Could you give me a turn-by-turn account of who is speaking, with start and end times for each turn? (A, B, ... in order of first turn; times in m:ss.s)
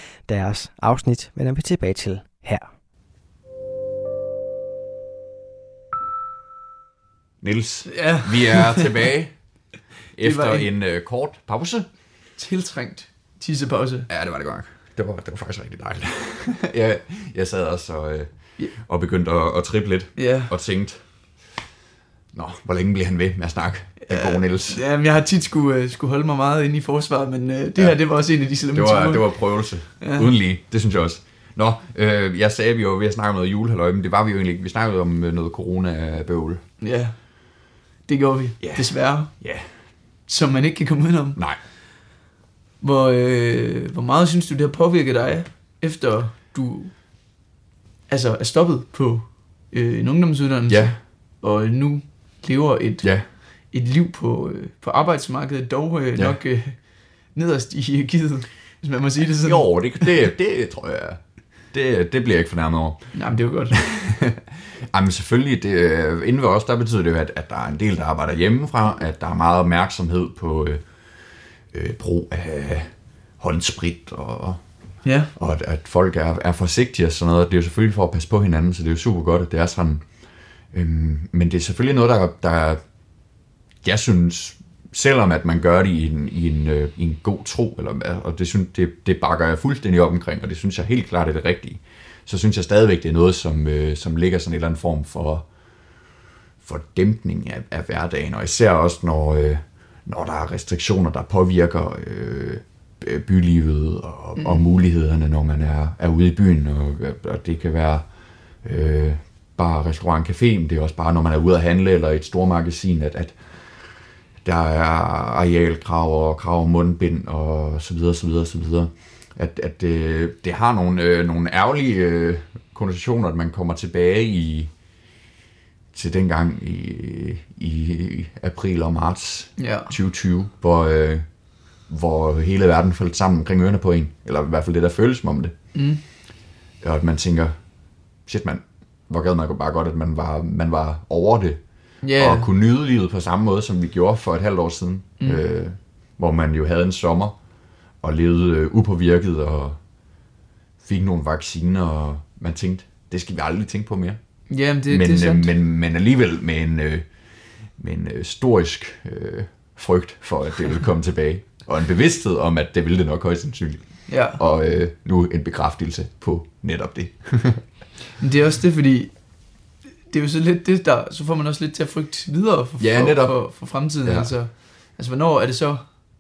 0:00.3-0:02.7 A
0:07.4-0:09.3 B
0:07.9-0:09.1 C
0:10.2-0:11.8 B
0:10.2-0:10.7 C
0:12.4-0:14.1 C
0:14.1-0:18.3 B
0:18.8-0:21.0 B
0:20.2-0:20.5 C
0:22.3-0:24.8 B
0:24.1-0:29.3 C
0:28.7-0:36.6 B
0:30.0-0:30.3 C
0:36.8-0:37.1 C
0:38.1-0:39.3 C
0:38.6-0:39.7 B
0:40.3-0:41.4 C
0:42.8-0:46.9 C
0:48.1-0:53.1 C
0:50.7-0:50.9 B
0:53.7-0:56.8 C
0:57.3-1:00.1 C
0:59.4-1:01.2 B
1:01.7-1:03.0 B
1:03.1-1:03.8 C
1:03.7-1:10.8 B
1:11.7-1:12.9 B
1:13.4-1:14.6 B
1:15.0-1:15.3 C
1:15.4-1:20.0 B
1:20.7-1:22.8 B
1:23.8-1:35.4 B
1:36.6-1:48.0 B
1:44.4-1:44.6 C
1:48.6-1:53.4 B
1:54.4-2:04.7 B
2:05.9-2:11.2 B
2:09.6-2:09.9 C
2:11.9-2:15.5 B
2:15.7-2:16.0 C
2:16.8-2:17.5 B
2:18.3-2:21.6 B
2:22.0-2:22.5 C
2:22.2-2:27.3 B
2:28.0-2:29.8 B
2:30.8-2:34.2 B
2:34.5-2:35.5 C
2:34.9-2:37.0 B
2:37.8-2:43.8 B
2:44.1-2:44.4 C
2:44.4-2:47.6 B
2:48.2-2:49.1 C
2:50.1-2:55.8 C
2:52.8-2:53.4 B
2:54.0-2:54.3 B